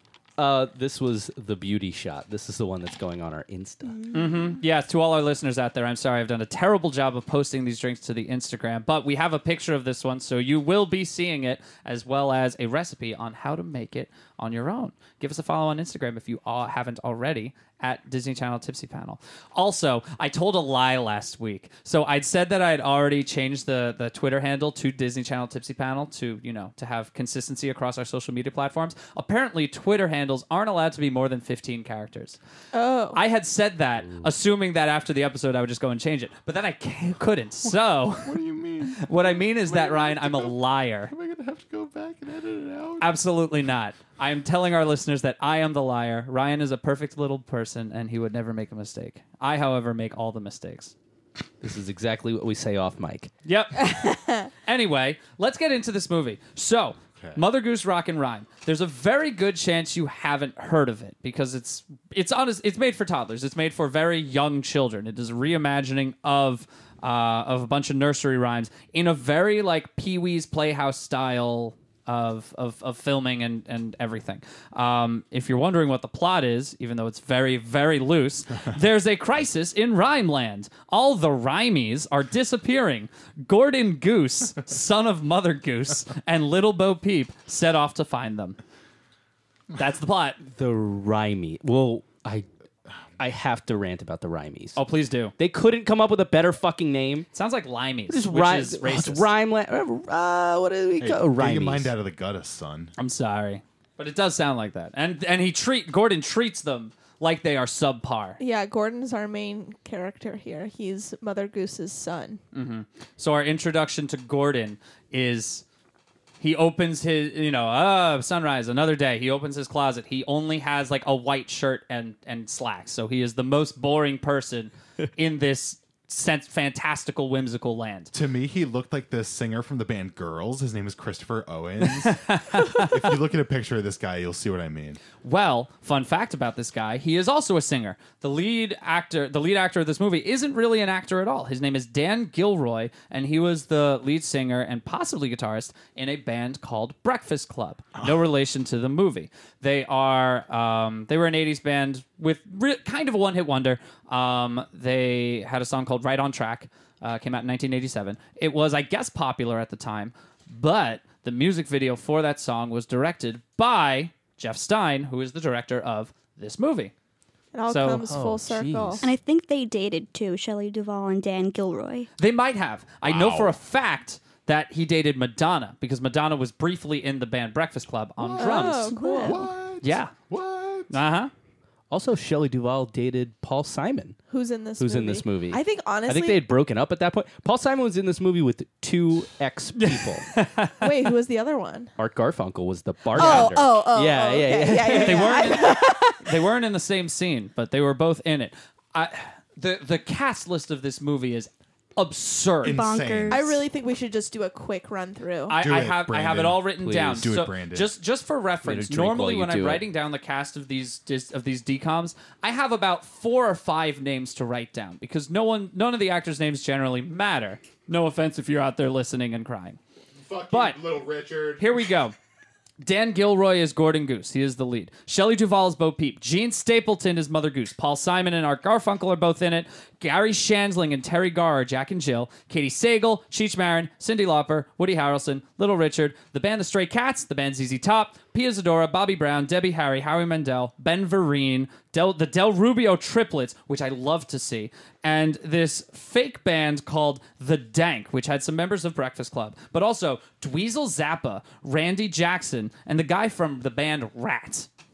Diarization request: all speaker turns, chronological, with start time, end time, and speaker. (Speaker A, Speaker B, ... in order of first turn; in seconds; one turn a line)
Speaker A: 0.4-4.0
Speaker B: 3.9-4.6
Speaker C: 4.1-32.4
Speaker D: 32.7-33.2
Speaker C: 33.1-41.1
Speaker E: 37.6-40.5
Speaker E: 41.1-43.1
Speaker C: 43.0-50.9
Speaker A: 51.6-53.3
Speaker C: 53.4-88.6
Speaker D: 54.0-54.3
Speaker C: 89.7-90.4
Speaker A: 90.4-92.5
Speaker A: 93.2-94.8
Speaker C: 94.8-95.3
Speaker A: 95.4-97.2
Speaker C: 97.3-99.3
Speaker A: 98.1-101.9
Speaker E: 101.0-102.9
Speaker C: 103.0-108.4
Speaker D: 108.4-112.4
Speaker C: 112.5-115.6
Speaker C: 116.4-128.1
Speaker E: 128.1-135.0
Speaker C: 131.9-132.9
Speaker C: 135.2-166.9
Speaker D: 167.5-169.0
Speaker C: 167.7-168.1
Speaker A: 168.1-169.1
Speaker B: 169.0-172.1
Speaker C: 172.2-179.2
Speaker E: 173.0-173.6
Speaker E: 178.2-181.0
Speaker D: 178.4-179.5
Speaker B: 178.9-179.4
Speaker C: 179.8-180.1
Speaker C: 180.9-181.3
Speaker A: 181.9-184.2
Speaker D: 184.3-186.4
Speaker A: 184.8-190.3
Speaker C: 189.8-191.1
Speaker D: 190.8-191.9
Speaker A: 192.0-196.0
Speaker D: 193.1-196.3
Speaker C: 193.2-193.4
Speaker C: 194.9-202.8
Speaker E: 202.6-203.4
Speaker B: 202.6-203.6
Speaker D: 203.3-205.6
Speaker C: 205.5-219.8
Speaker E: 205.6-207.9
Speaker A: 206.8-207.2
Speaker A: 208.6-209.8
Speaker E: 220.2-221.6
Speaker C: 220.5-220.8
Speaker C: 221.6-222.1
Speaker C: 222.8-254.7